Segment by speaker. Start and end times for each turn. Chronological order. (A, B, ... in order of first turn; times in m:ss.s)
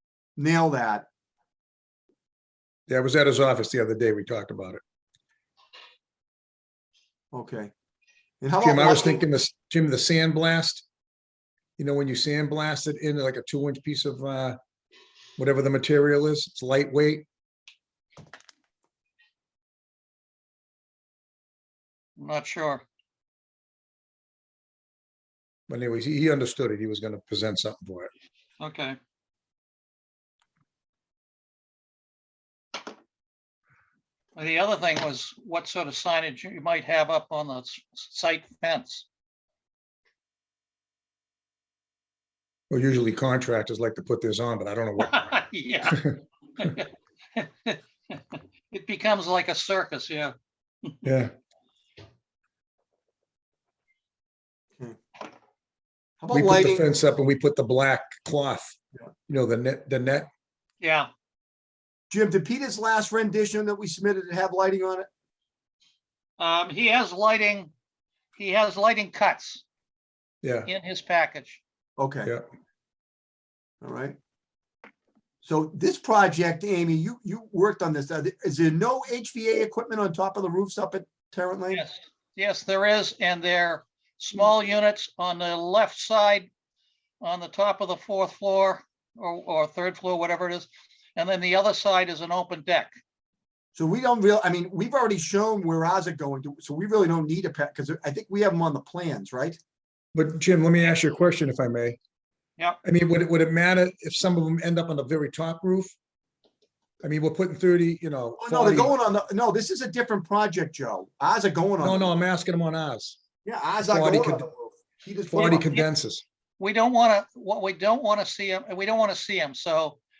0:00.4-0:01.1 A
0:02.9-0:04.8 B
0:07.3-0:07.7 A
0:08.4-0:09.2 A
0:08.6-0:10.8 B
0:11.8-0:14.6 B
0:15.4-0:17.2 B
0:22.2-0:22.8 C
0:25.7-0:28.1 B
0:28.6-0:29.0 C
0:34.4-0:39.0 C
0:42.7-0:45.4 B
0:45.0-0:50.3 C
0:51.0-0:51.3 B
0:56.2-0:56.9 A
0:56.3-0:58.8 B
0:59.3-1:00.3 B
1:00.8-1:01.1 C
1:02.1-1:05.1 A
1:06.4-1:07.7 C
1:08.4-1:09.6 C
1:10.4-1:10.7 B
1:10.6-1:11.6 C
1:12.0-1:12.3 A
1:13.8-1:14.2 A
1:15.4-1:21.8 A
1:21.7-1:26.5 C
1:27.2-1:32.9 C
1:33.7-1:39.6 A
1:40.1-1:42.0 B
1:42.8-1:45.9 B
1:47.0-1:48.9 B
1:48.4-1:52.1 A
1:51.8-1:53.2 B
1:53.4-1:55.7 A
1:53.8-1:54.5 B
1:55.3-1:56.2 B
1:56.6-2:00.0 C